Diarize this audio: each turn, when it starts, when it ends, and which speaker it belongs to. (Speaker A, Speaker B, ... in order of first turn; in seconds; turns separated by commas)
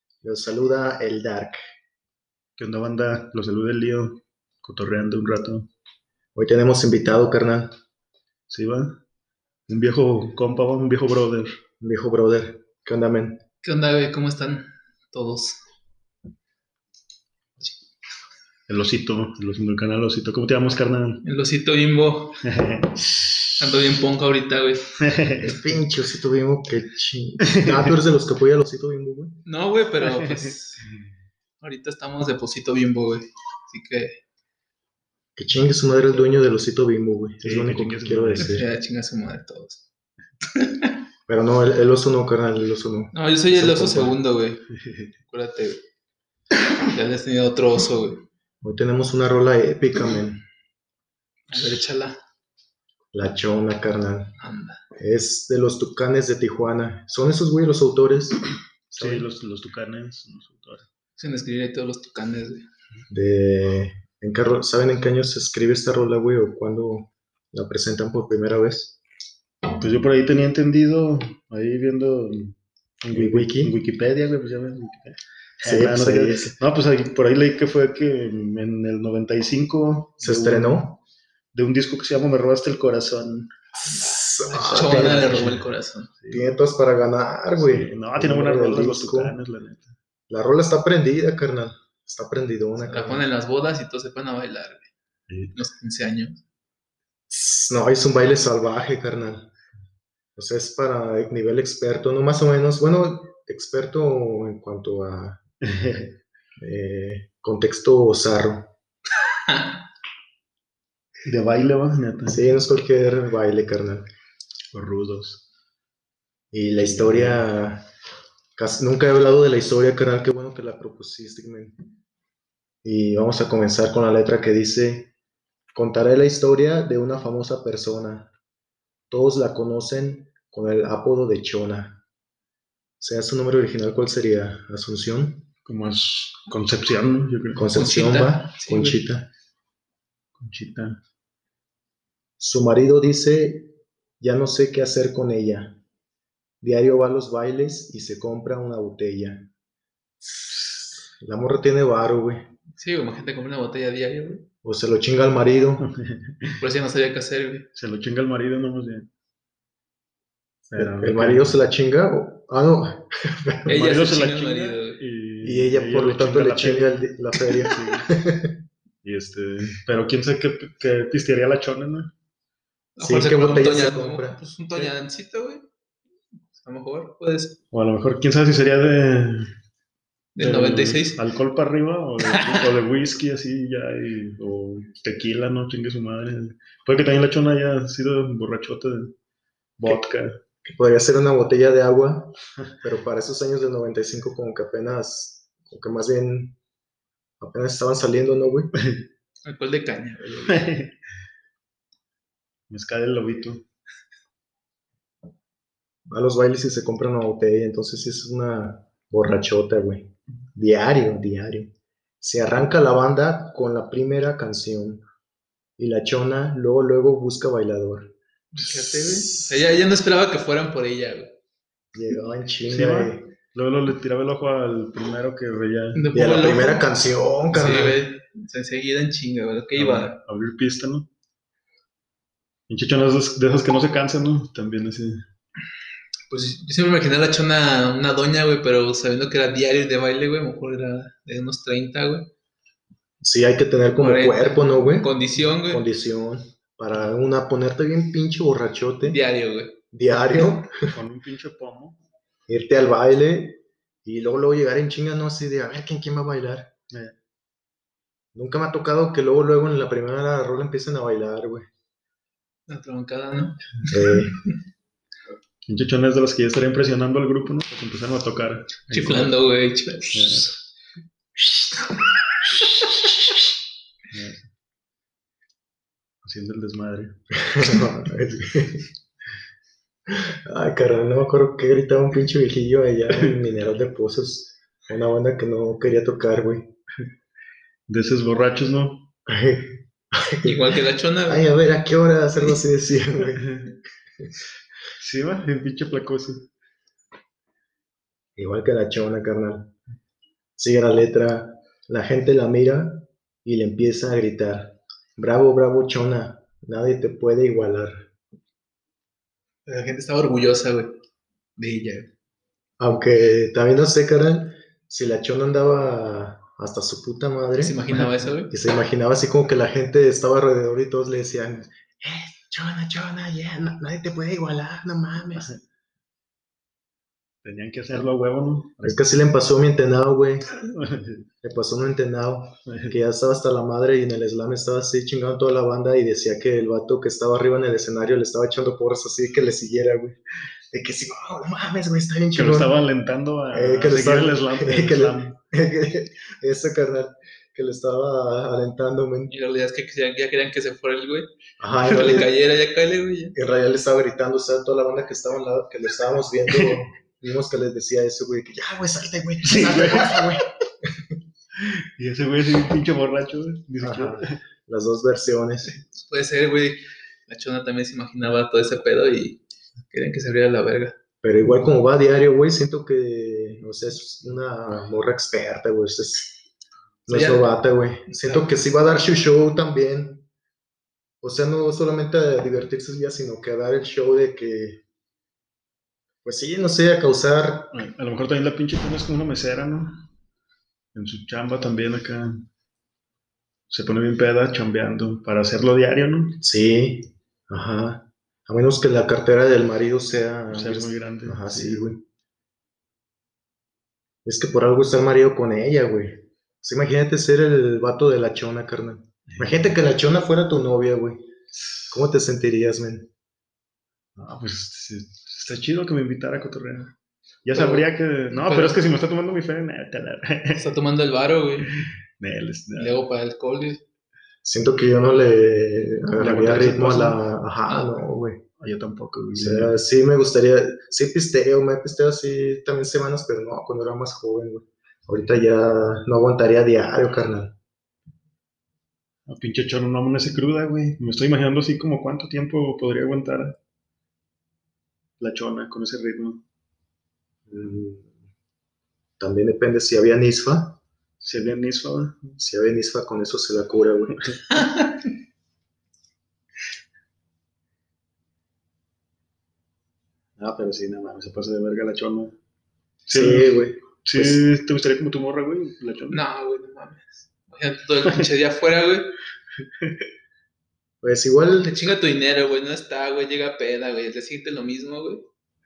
Speaker A: 0.2-1.6, Speaker B: 2.6-5.7, Speaker A: 6.3-7.8, Speaker B: 8.5-9.0, Speaker B: 9.7-11.6, Speaker A: 11.8-13.4, Speaker C: 13.6-15.6, Speaker B: 18.7-21.2, Speaker C: 21.2-22.4, Speaker B: 22.4-23.6, Speaker C: 23.6-24.9, Speaker B: 25.0-25.6, Speaker A: 25.4-29.4, Speaker B: 27.4-27.9, Speaker C: 29.4-30.9, Speaker B: 30.0-31.0, Speaker C: 31.6-34.2, Speaker A: 35.4-38.6, Speaker B: 37.4-38.7, Speaker C: 38.4-39.9, Speaker C: 40.5-40.9, Speaker A: 41.3-44.1, Speaker C: 43.1-44.6, Speaker B: 44.8-45.1, Speaker C: 45.3-45.8, Speaker C: 46.9-48.2, Speaker A: 48.6-50.4, Speaker C: 51.5-52.2, Speaker A: 53.1-54.4, Speaker C: 54.4-54.8, Speaker A: 55.0-59.2, Speaker B: 58.9-60.9, Speaker C: 61.2-62.6, Speaker A: 63.1-69.0, Speaker B: 69.8-80.9, Speaker A: 73.1-73.7, Speaker A: 75.6-76.5, Speaker A: 80.2-81.0, Speaker B: 81.5-83.5, Speaker C: 83.7-86.1, Speaker A: 83.8-85.6, Speaker B: 84.6-85.7, Speaker B: 86.2-86.4, Speaker A: 86.3-89.3, Speaker B: 87.6-89.9, Speaker A: 90.3-93.2, Speaker C: 92.8-94.9, Speaker B: 95.3-95.5, Speaker C: 95.5-96.4, Speaker A: 97.3-99.5, Speaker A: 100.3-105.4, Speaker B: 105.6-106.2, Speaker A: 106.6-108.7, Speaker C: 109.3-109.8, Speaker B: 111.2-112.5, Speaker A: 112.2-114.1, Speaker B: 114.7-115.4, Speaker A: 116.5-117.9, Speaker B: 116.9-117.4, Speaker A: 118.5-121.8, Speaker A: 122.8-125.1, Speaker A: 125.7-128.3, Speaker A: 129.1-132.0, Speaker A: 133.0-135.5, Speaker B: 135.7-137.7, Speaker A: 137.6-139.3, Speaker C: 137.7-139.0, Speaker B: 140.4-141.0, Speaker A: 142.4-145.8, Speaker A: 146.6-149.5, Speaker A: 150.3-152.5, Speaker C: 152.8-154.5, Speaker A: 154.6-155.9, Speaker B: 155.8-156.6, Speaker C: 156.6-157.7, Speaker B: 157.7-159.1, Speaker B: 160.7-161.6, Speaker A: 160.8-163.8, Speaker C: 163.7-165.0, Speaker B: 163.7-168.1, Speaker A: 165.4-168.6, Speaker B: 169.0-172.1, Speaker C: 173.0-175.6, Speaker A: 173.0-174.4, Speaker C: 176.5-177.6, Speaker B: 177.7-179.5, Speaker C: 180.3-181.2, Speaker B: 180.4-189.1, Speaker C: 182.2-182.7, Speaker B: 189.8-190.4, Speaker A: 190.6-196.6, Speaker A: 197.4-198.7, Speaker B: 198.8-199.0, Speaker C: 199.4-200.7, Speaker B: 200.5-200.9, Speaker B: 202.7-203.6, Speaker A: 206.1-215.0, Speaker A: 215.8-218.1, Speaker C: 218.5-221.3, Speaker A: 218.7-219.7, Speaker A: 221.9-223.3, Speaker B: 222.7-226.0, Speaker C: 225.9-226.8, Speaker A: 226.1-228.0, Speaker C: 227.5-230.1, Speaker B: 229.7-231.1, Speaker B: 232.7-235.2, Speaker C: 236.3-242.3, Speaker A: 243.2-249.2, Speaker C: 244.0-245.8, Speaker C: 249.1-249.8, Speaker A: 249.9-250.9, Speaker B: 250.9-252.0, Speaker A: 252.5-256.7, Speaker A: 258.3-261.7, Speaker C: 262.7-264.2, Speaker A: 263.9-264.3, Speaker B: 265.7-269.3, Speaker C: 268.9-270.5, Speaker B: 270.1-270.5, Speaker B: 274.1-274.5, Speaker B: 276.2-277.2, Speaker A: 277.3-278.9, Speaker A: 280.1-286.8, Speaker B: 287.9-289.1, Speaker A: 289.3-290.7, Speaker C: 290.4-291.4, Speaker A: 291.2-293.4, Speaker B: 293.3-293.7, Speaker B: 295.0-296.5, Speaker A: 298.4-299.7, Speaker A: 300.6-308.1, Speaker C: 309.7-310.9, Speaker C: 311.6-312.1, Speaker A: 312.8-317.8, Speaker C: 317.6-318.5, Speaker A: 318.5-325.5, Speaker B: 327.4-329.1, Speaker A: 328.8-330.5, Speaker B: 330.5-331.3, Speaker A: 331.4-340.2, Speaker B: 332.7-333.0, Speaker A: 340.7-342.8, Speaker B: 342.4-345.4, Speaker A: 343.5-349.3, Speaker C: 349.3-351.3, Speaker A: 351.6-352.3, Speaker C: 351.8-353.4, Speaker A: 353.3-361.1, Speaker B: 356.5-356.8, Speaker B: 359.4-360.4, Speaker B: 361.5-364.4, Speaker A: 363.8-365.7, Speaker C: 365.7-370.9, Speaker A: 371.2-376.4, Speaker A: 377.1-380.3, Speaker C: 377.1-377.5, Speaker C: 378.2-378.5, Speaker A: 381.2-384.8, Speaker A: 386.2-387.7, Speaker B: 387.7-390.1, Speaker B: 390.9-392.4, Speaker B: 393.7-396.4, Speaker A: 396.4-402.0, Speaker B: 400.5-401.8, Speaker A: 404.2-411.3, Speaker B: 409.3-409.8, Speaker A: 411.9-413.1, Speaker B: 414.1-416.9, Speaker B: 417.4-420.7, Speaker C: 417.5-418.8, Speaker C: 420.5-421.8, Speaker B: 421.6-422.9, Speaker C: 422.8-423.8, Speaker A: 424.4-428.4, Speaker B: 426.2-427.2, Speaker B: 428.6-429.7, Speaker A: 429.3-437.5, Speaker B: 439.3-443.5, Speaker B: 445.2-446.4, Speaker A: 447.5-448.1, Speaker A: 449.2-450.8, Speaker B: 451.2-452.4, Speaker A: 452.4-454.4, Speaker C: 454.5-455.1, Speaker B: 460.4-462.3, Speaker B: 463.1-466.2, Speaker A: 463.1-464.4, Speaker C: 466.1-469.1, Speaker A: 471.0-471.8, Speaker C: 471.6-475.2